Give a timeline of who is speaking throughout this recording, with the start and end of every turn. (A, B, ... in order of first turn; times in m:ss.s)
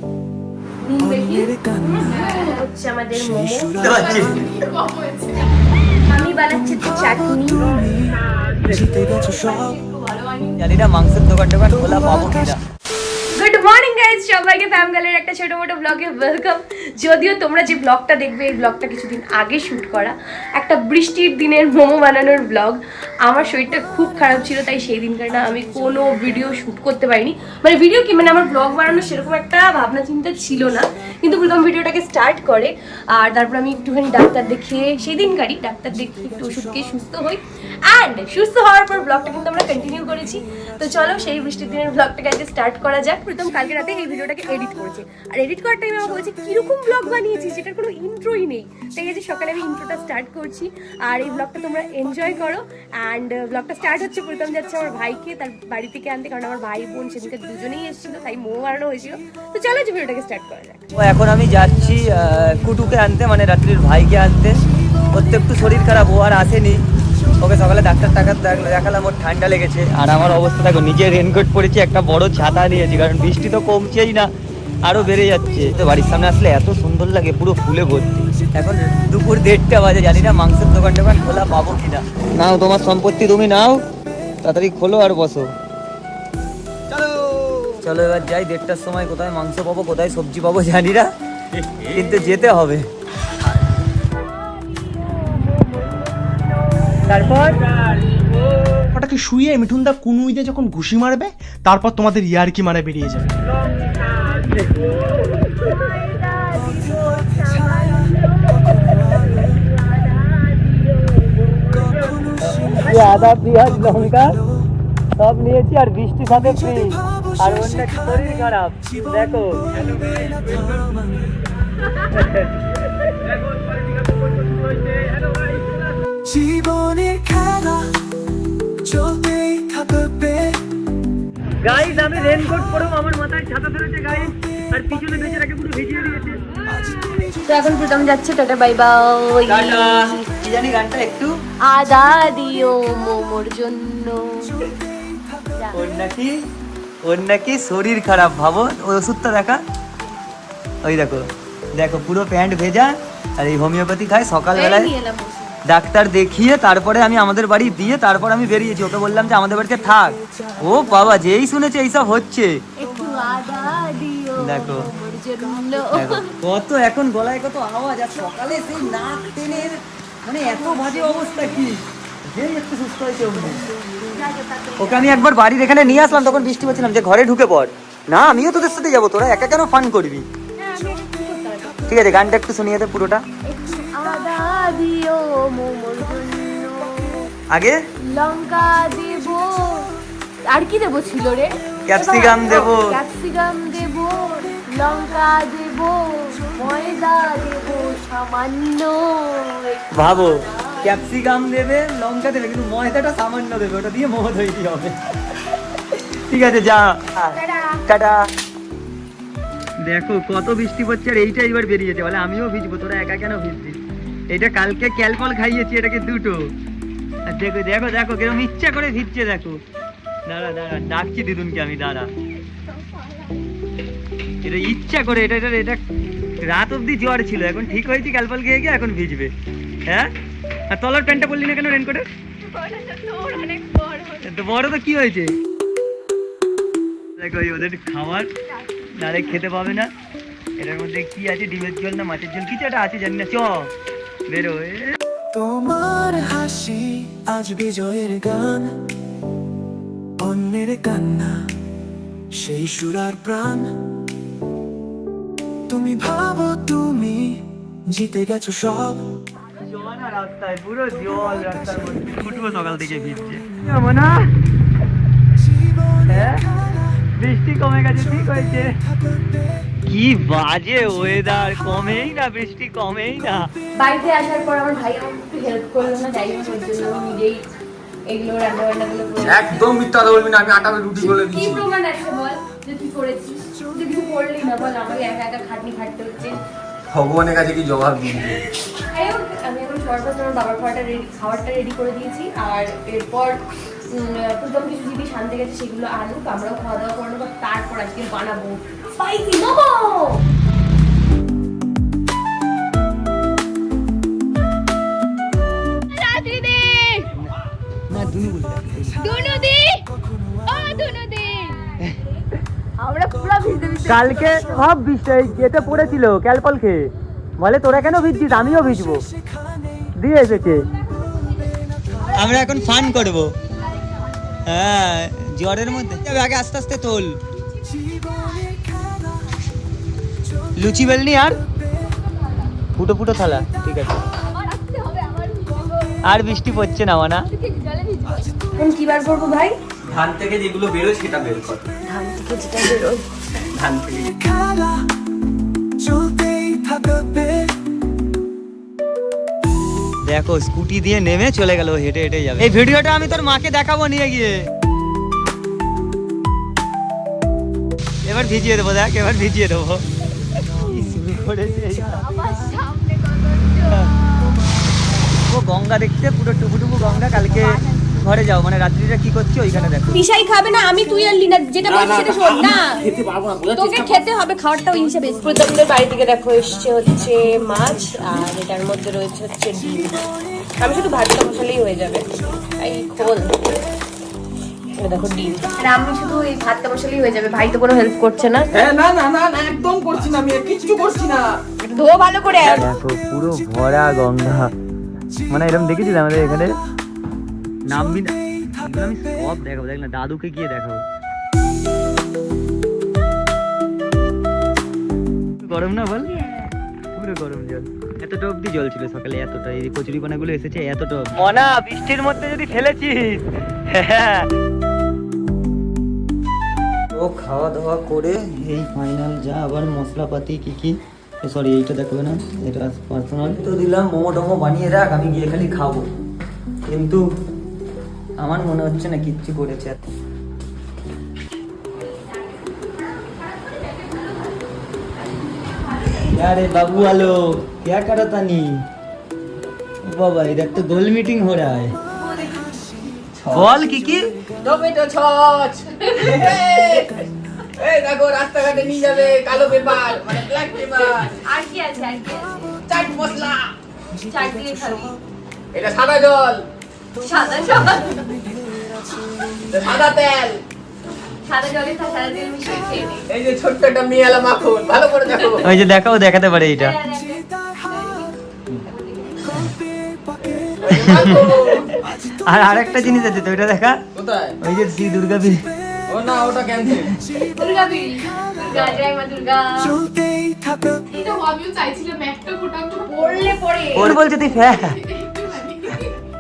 0:00.8-0:04.1 A
0:01.0-0:02.3 B
0:03.6-0:04.3 B
0:03.8-0:04.4 C
0:03.8-0:05.4 D
0:06.1-0:07.9 A
0:07.7-0:09.7 B
0:09.8-0:10.5 A
0:10.6-0:12.6 C
0:13.4-1:00.9 A
1:01.0-1:04.6 C
1:05.1-1:06.8 C
1:07.4-1:14.3 C
1:14.8-1:23.9 C
1:24.4-1:25.5 C
1:26.9-1:27.8 D
1:27.8-1:31.1 C
1:31.8-1:32.9 C
1:34.2-1:36.9 A
1:37.1-1:37.7 C
1:38.9-1:43.3 E
1:43.5-1:45.3 C
1:45.3-1:51.9 A
1:51.9-1:52.9 B
1:52.4-1:54.4 C
1:55.2-2:01.0 C
1:59.8-2:01.3 B
2:02.1-2:06.0 C
2:06.2-2:07.9 B
2:08.8-2:10.6 B
2:11.6-2:16.4 C
2:17.4-2:20.2 A
2:19.5-2:21.3 C
2:21.7-2:24.3 A
2:25.7-2:26.4 C
2:27.0-2:29.6 C
2:30.8-2:34.9 C
2:34.7-2:35.5 A
2:35.7-2:42.6 C
2:42.8-2:46.2 A
2:44.4-2:44.9 C
2:45.9-2:53.6 C
2:54.1-2:55.3 A
2:54.8-3:00.3 C
3:00.6-3:01.8 A
3:01.9-3:03.2 C
3:03.5-3:07.3 A
3:07.5-3:07.8 C
3:08.1-3:09.9 A
3:10.5-3:21.0 A
3:11.9-3:13.0 C
3:19.9-3:25.3 C
3:26.0-3:28.3 C
3:27.4-3:27.8 A
3:29.8-3:33.8 C
3:34.3-3:36.5 C
3:37.3-3:39.6 C
3:40.3-3:42.1 C
3:44.4-3:45.8 C
3:46.4-3:49.3 C
3:49.9-3:50.1 C
3:50.7-3:52.0 C
3:53.0-3:54.0 A
3:54.2-3:55.3 C
3:57.2-3:58.3 C
3:59.0-3:59.9 C
4:00.6-4:03.7 C
4:04.3-4:05.0 C
4:05.3-4:08.8 B
4:10.2-4:11.5 B
4:12.3-4:13.7 B
4:15.7-4:19.0 B
4:19.5-4:24.3 C
4:26.1-4:26.5 C
4:27.2-4:28.8 C
4:29.9-4:33.5 C
4:33.8-4:37.4 A
4:38.1-4:39.6 A
4:39.2-4:41.6 D
4:41.0-4:46.4 A
4:46.9-4:48.4 D
4:48.8-4:53.4 A
4:53.9-5:00.2 A
5:05.9-5:07.0 A
5:07.9-5:09.1 C
5:09.0-5:09.8 A
5:10.5-5:11.6 A
5:12.8-5:14.4 A
5:13.9-5:19.0 C
5:20.0-5:20.7 C
5:22.1-5:23.4 C
5:24.4-5:27.2 C
5:30.6-5:31.4 C
5:32.7-5:34.0 C
5:36.0-5:37.3 C
5:38.5-5:39.6 A
5:39.9-5:41.7 C
5:41.9-5:43.0 A
5:43.5-5:44.2 C
5:44.2-5:44.9 B
5:45.8-5:47.5 B
5:50.1-5:54.5 C
5:58.0-5:59.8 C
6:00.4-6:02.0 C
6:02.2-6:03.5 A
6:03.7-6:03.9 C
6:05.3-6:10.0 C
6:09.9-6:12.8 A
6:11.7-6:13.9 D
6:13.6-6:20.1 A
6:20.6-6:23.4 A
6:24.8-6:28.5 A
6:28.5-6:31.4 D
6:31.6-6:32.7 A
6:32.4-6:34.5 C
6:35.3-6:36.6 C
6:37.7-6:40.9 C
6:45.4-6:46.1 C
6:47.0-6:54.3 C
6:56.9-7:05.9 C
7:06.6-7:07.0 C
7:08.2-7:09.8 C
7:12.8-7:14.3 A
7:15.2-7:16.1 A
7:16.0-7:18.6 C
7:19.8-7:21.8 C
7:22.0-7:22.5 A
7:23.3-7:24.2 C
7:24.4-7:26.9 D
7:26.0-7:26.7 A
7:27.6-7:31.2 D
7:31.2-7:32.5 A
7:32.7-7:33.5 D
7:34.1-7:35.0 A
7:35.5-7:36.5 D
7:37.0-7:38.1 A
7:39.5-7:40.4 D
7:41.3-7:43.1 A
7:43.1-7:45.5 D
7:45.4-7:46.8 C
7:46.6-7:48.1 A
7:48.7-7:49.5 A
7:50.6-7:51.7 D
7:50.6-7:53.8 C
7:54.0-7:54.4 D
7:54.4-7:55.5 C
7:55.9-7:56.9 D
7:57.2-7:59.8 A
8:00.0-8:00.6 B
8:01.0-8:03.0 F
8:02.8-8:04.0 A
8:03.7-8:04.8 C
8:05.1-8:05.9 D